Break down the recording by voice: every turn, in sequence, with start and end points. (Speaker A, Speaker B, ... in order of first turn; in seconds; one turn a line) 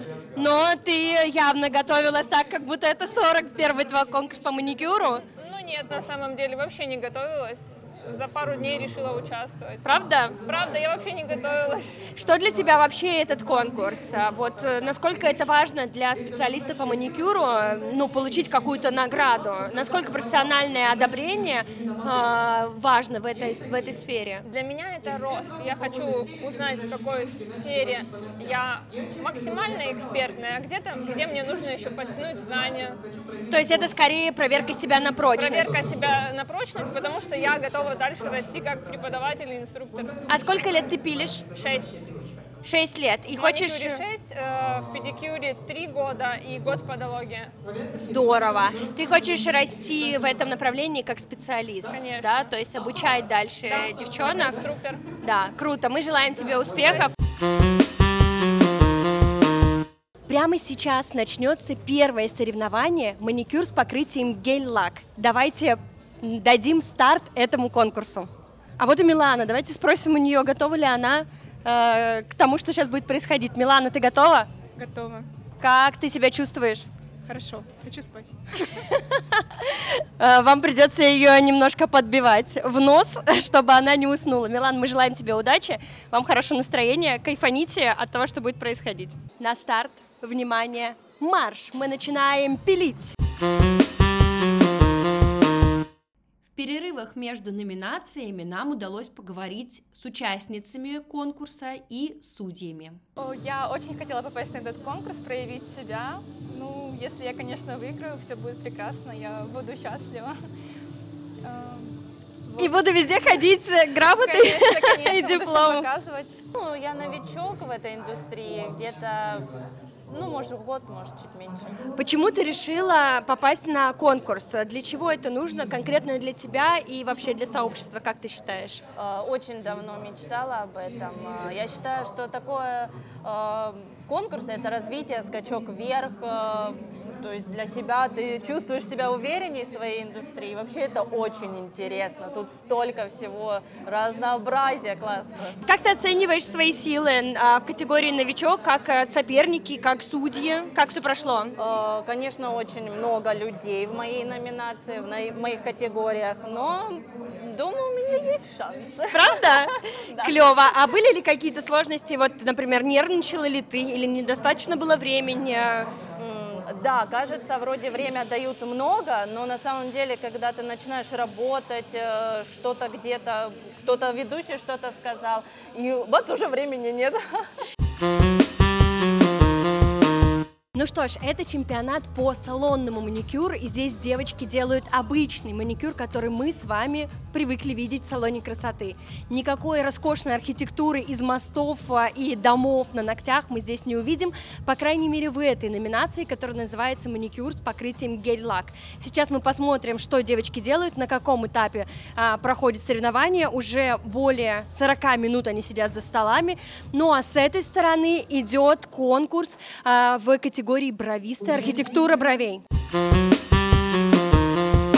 Speaker A: 0.4-5.2
Speaker B: 5.4-12.1
Speaker A: 9.8-10.4
Speaker A: 12.2-24.4
Speaker B: 24.4-33.0
Speaker A: 33.5-35.9
Speaker B: 35.4-40.4
Speaker A: 40.3-41.5
Speaker B: 41.5-42.0
Speaker A: 42.6-44.0
Speaker B: 43.3-47.5
Speaker A: 48.0-54.6
Speaker B: 51.9-52.5
Speaker B: 53.7-55.0
Speaker A: 55.2-57.1
Speaker A: 60.3-74.5
Speaker C: 74.8-75.3
Speaker A: 75.6-76.9
Speaker C: 77.3-78.7
Speaker A: 78.8-93.2
Speaker A: 96.5-103.0
Speaker D: 103.2-110.4
Speaker D: 111.4-112.8
Speaker A: 112.6-115.9
Speaker D: 114.0-116.4
Speaker E: 116.5-119.5
Speaker E: 120.1-121.8
Speaker A: 122.0-128.8
Speaker E: 128.9-145.7
Speaker A: 145.6-151.6
Speaker E: 151.6-160.6
Speaker A: 159.1-165.9
Speaker E: 166.2-177.4
Speaker A: 180.7-212.6